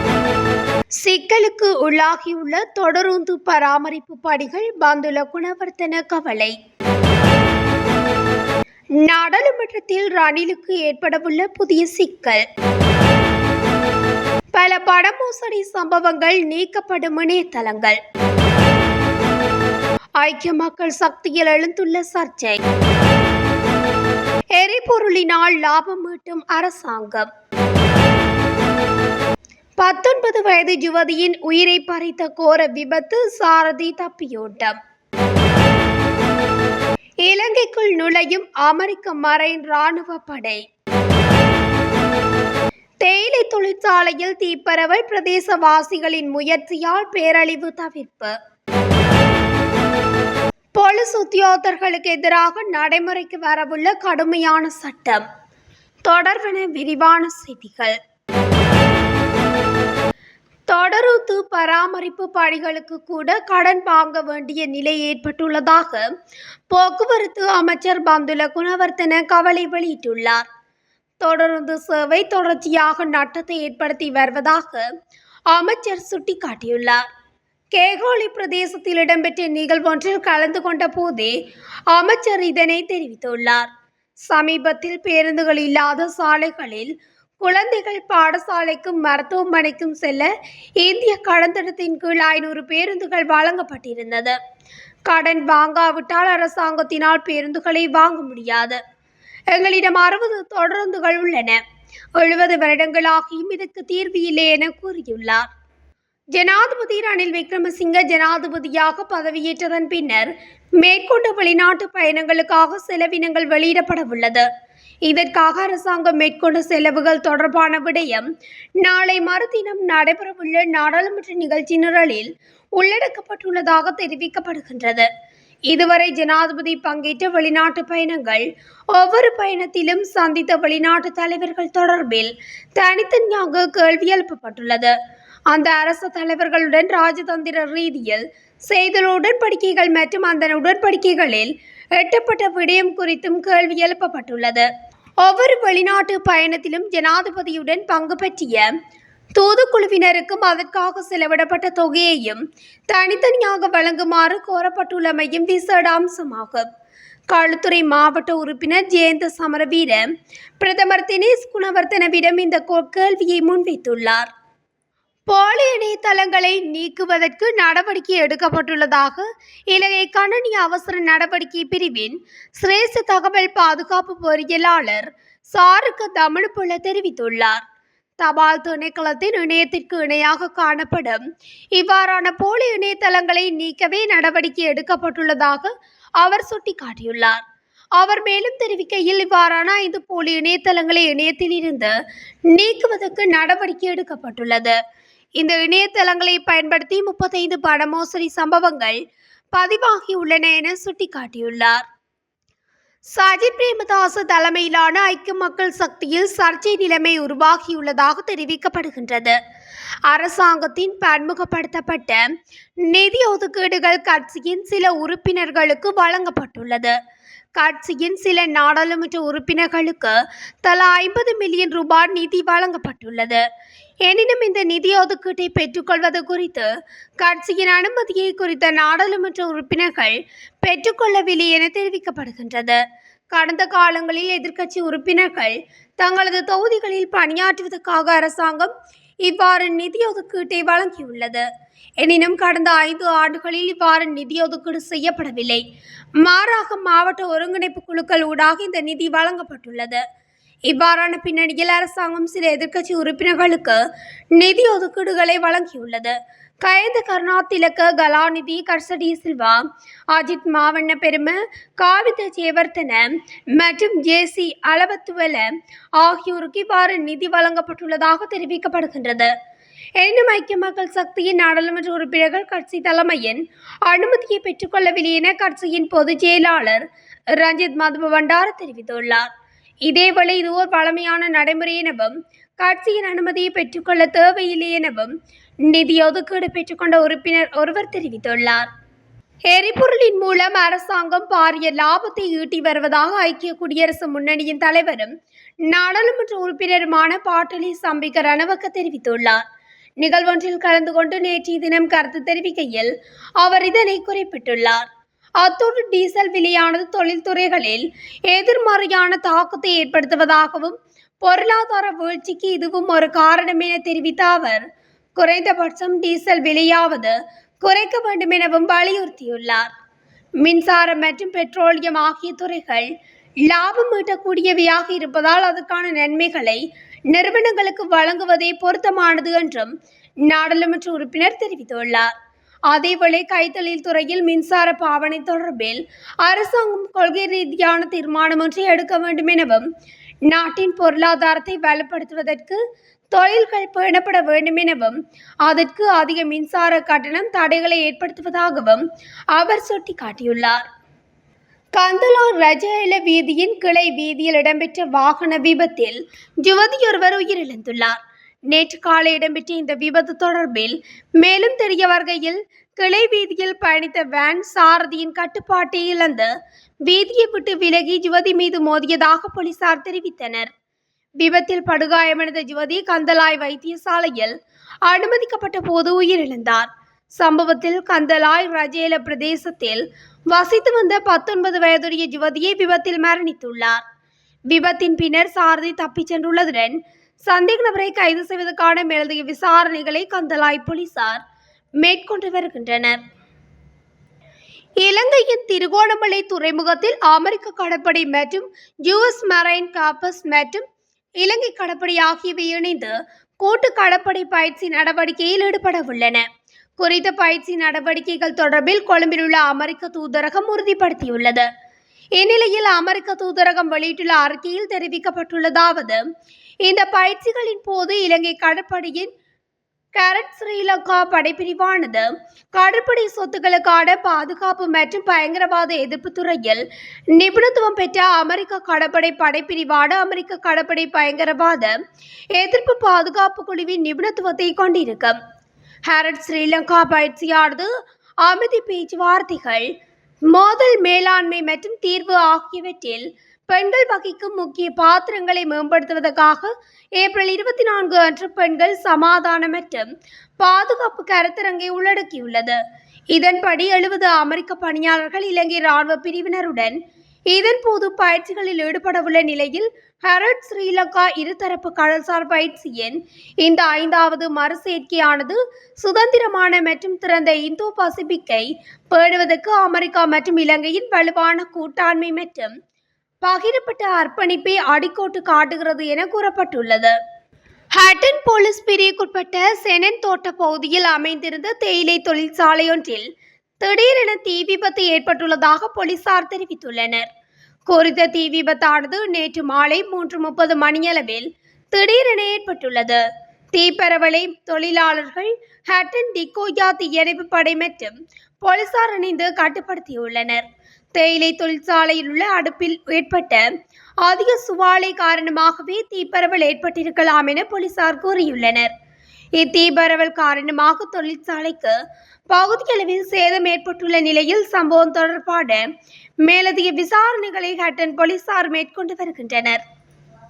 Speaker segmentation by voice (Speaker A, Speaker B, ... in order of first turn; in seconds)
Speaker A: 1.0-6.6, 9.0-12.4, 14.5-18.0, 20.2-22.6, 24.6-27.3, 29.8-34.8, 37.2-40.6, 43.0-48.4, 50.7-55.2, 56.0-58.0, 60.7-66.1, 66.7-70.5, 71.2-74.9, 75.5-77.0, 77.7-81.3, 81.9-83.7, 84.3-94.4, 95.1-98.8, 99.5-101.6, 102.2-105.5, 106.3-114.5, 115.1-118.3, 118.8-125.1, 125.7-134.9, 135.5-144.7, 145.2-148.7, 149.3-156.7, 157.3-160.0, 160.6-164.3, 165.3-177.6, 178.2-181.2, 181.8-187.4, 188.0-191.9, 192.5-194.8, 195.4-199.0, 199.5-201.8, 203.1-209.4, 210.1-212.2, 212.8-217.0, 217.6-223.4, 224.1-232.8, 233.3-238.7, 239.2-241.4, 242.0-245.6, 246.2-250.0, 250.7-253.8, 254.3-259.6, 260.1-269.3, 270.0-276.8, 277.4-279.3, 279.9-285.1, 285.7-288.7, 289.5-295.1, 295.7-299.4, 300.0-304.9, 305.4-314.6, 315.2-319.7, 320.4-322.9, 323.4-329.7, 330.3-332.1, 332.7-339.7, 340.3-342.6, 343.1-348.8, 349.3-350.7, 351.7-358.0, 358.5-366.3, 366.9-370.5, 371.2-374.3, 374.9-383.8, 384.5-391.2, 391.8-393.0, 394.8-400.6, 401.2-406.2, 406.8-411.5, 412.2-416.0, 416.6-419.1, 419.9-426.6, 427.1-431.8, 432.3-435.2, 435.9-437.7, 438.2-439.7, 440.3-449.9, 450.4-452.6, 453.1-456.8, 457.3-472.5, 473.2-476.9, 477.7-483.1, 483.6-487.1, 487.7-493.0, 493.5-503.5, 504.0-508.7, 509.4-511.8, 512.3-515.6, 516.2-519.6